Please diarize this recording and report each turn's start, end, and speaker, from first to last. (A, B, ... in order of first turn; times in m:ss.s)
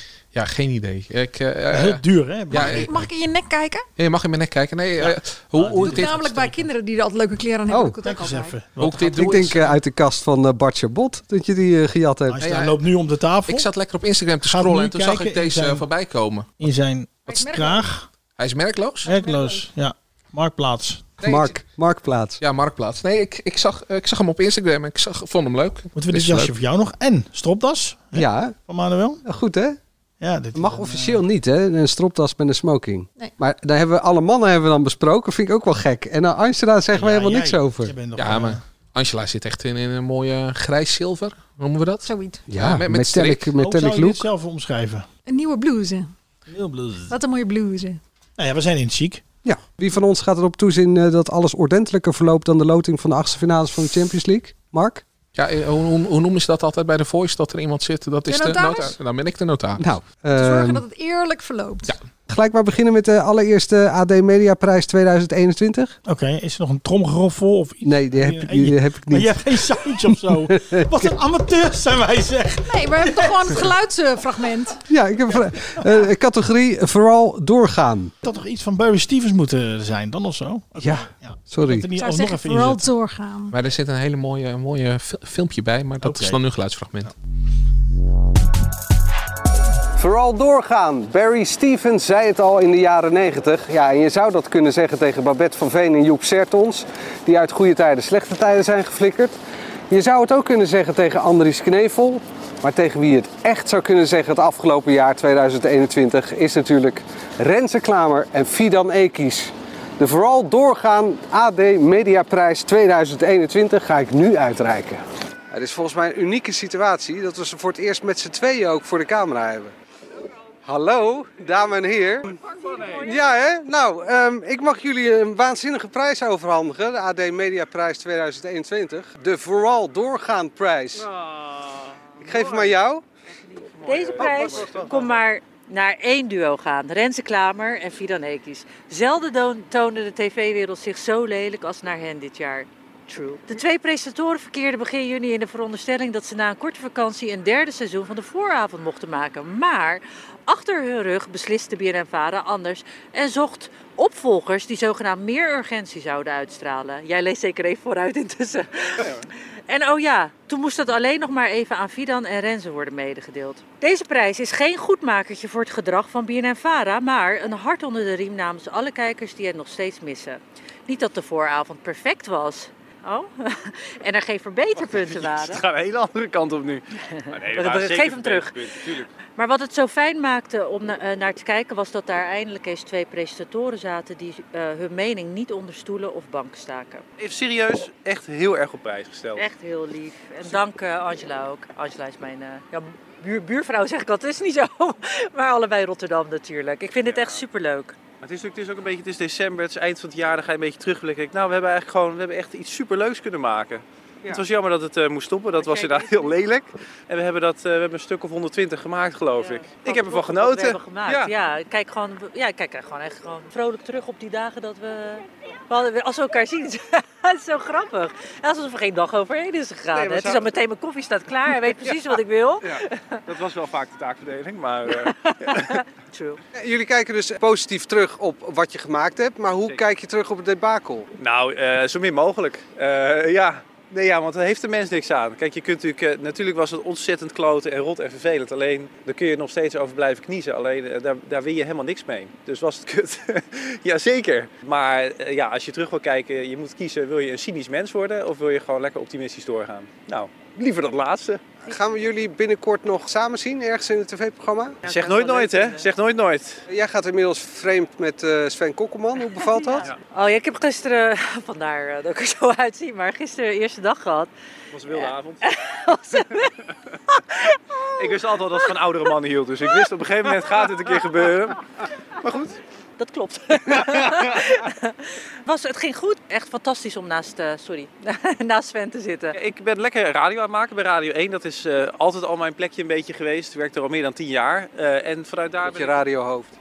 0:00.3-0:02.9 A
0:01.7-0:03.0 B
0:02.6-0:03.8 C
0:04.0-0:06.4 A
0:05.0-0:06.3 B
0:05.8-0:08.6 C
0:07.7-0:08.0 D
0:08.0-0:09.5 B
0:08.8-0:09.8 A
0:09.1-0:12.4 D
0:12.3-0:13.7 B
0:12.4-0:12.7 A
0:13.5-0:16.5 A
0:14.4-0:15.9 B
0:16.6-0:18.0 B
0:17.2-0:17.8 C
0:18.4-0:19.1 A
0:19.0-0:21.2 B
0:19.1-0:19.6 C
0:21.2-0:21.6 A
0:21.2-0:22.4 D
0:22.4-0:26.5 A
0:25.9-0:29.2 B
0:28.1-0:28.6 D
0:29.2-0:29.8 D
0:30.2-0:31.2 B
0:30.5-0:37.9 D
0:36.9-0:38.6 B
0:38.2-0:43.5 A
0:42.0-0:42.4 C
0:42.5-0:44.2 D
0:43.6-0:45.0 B
0:45.3-0:46.1 C
0:46.5-0:47.2 B
0:47.1-0:48.0 C
0:48.4-0:49.2 B
0:49.4-0:55.0 D
0:55.3-0:59.9 A
0:58.3-0:59.0 C
0:59.8-1:00.8 D
1:00.4-1:01.9 C
1:02.3-1:05.9 D
1:06.0-1:13.7 B
1:07.8-1:11.1 D
1:12.7-1:14.8 C
1:14.9-1:18.1 D
1:18.2-1:22.8 B
1:20.8-1:21.9 D
1:21.9-1:23.5 C
1:23.5-1:27.1 A
1:26.0-1:26.4 B
1:30.0-1:39.4 D
1:39.9-1:59.7 D
2:00.6-2:11.1 D
2:11.2-2:11.7 E
2:12.2-2:13.0 D
2:12.3-2:12.7 E
2:13.8-2:15.2 E
2:13.8-2:39.1 F
2:39.7-2:55.6 F
2:54.8-2:59.1 E
2:57.3-2:58.6 F
2:59.4-3:07.0 F
3:07.2-3:09.4 E
3:09.3-3:18.0 F
3:17.0-3:17.4 E
3:18.2-3:31.3 E
3:25.6-3:26.4 F
3:29.4-3:43.2 F
3:39.9-3:40.5 E
3:41.7-3:45.7 E
3:45.0-3:46.4 F
3:46.5-3:51.1 D
3:51.2-4:11.5 E
4:11.6-4:14.8 D
4:14.8-4:15.9 F
4:14.8-4:16.6 E
4:16.7-4:19.9 D
4:19.4-4:24.3 F
4:24.7-4:25.5 E
4:24.9-4:26.5 F
4:27.4-4:28.8 F
4:28.0-4:31.6 E
4:29.7-4:31.0 F
4:32.2-4:32.6 E
4:33.0-4:34.9 F
4:33.7-4:34.4 E
4:35.4-4:39.4 F
4:39.3-4:46.0 E
4:45.6-4:46.5 D